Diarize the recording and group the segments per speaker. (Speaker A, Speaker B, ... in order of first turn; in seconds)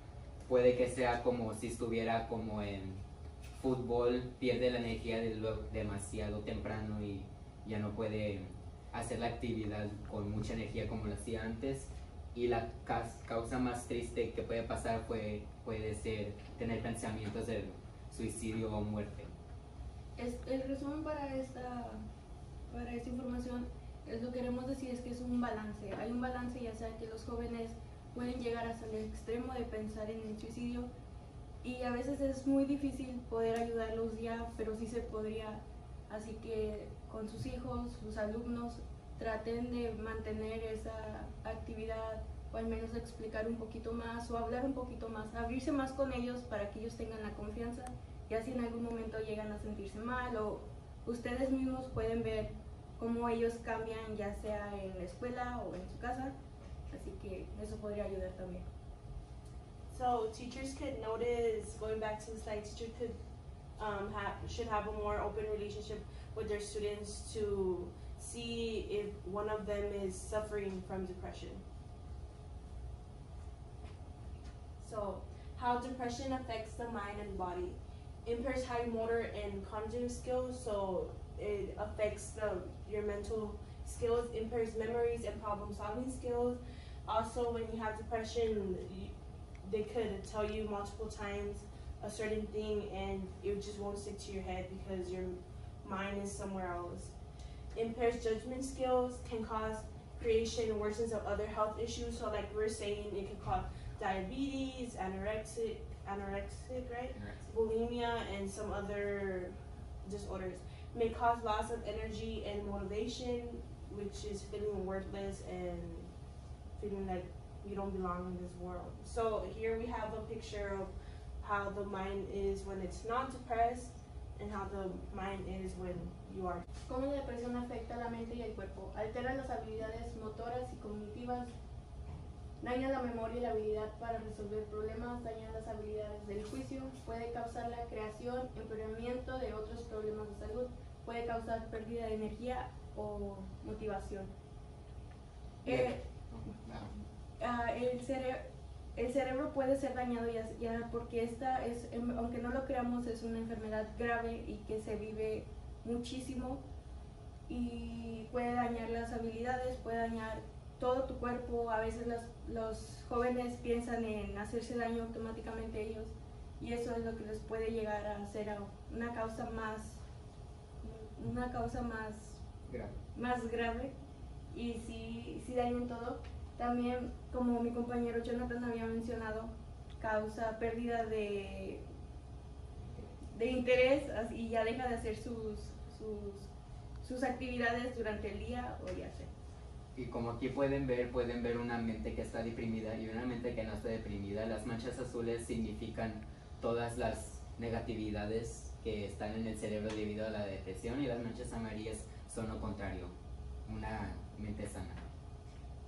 Speaker A: 0.5-3.0, 3.6-19.3, 107.1-107.4, 146.4-146.9, 172.7-173.0, 189.9-203.1, 203.6-205.0
Speaker B: 20.2-22.0, 22.7-30.9, 31.6-56.3, 56.9-58.7, 126.9-131.5, 132.6-144.3, 145.6-146.1, 147.4-156.6, 157.5-170.0, 170.8-172.4, 173.1-173.9, 174.5-181.8, 183.3-186.5, 187.0-189.3
Speaker C: 59.9-63.1, 63.8-71.6, 74.8-97.1, 97.7-109.5, 110.0-116.1, 116.8-126.6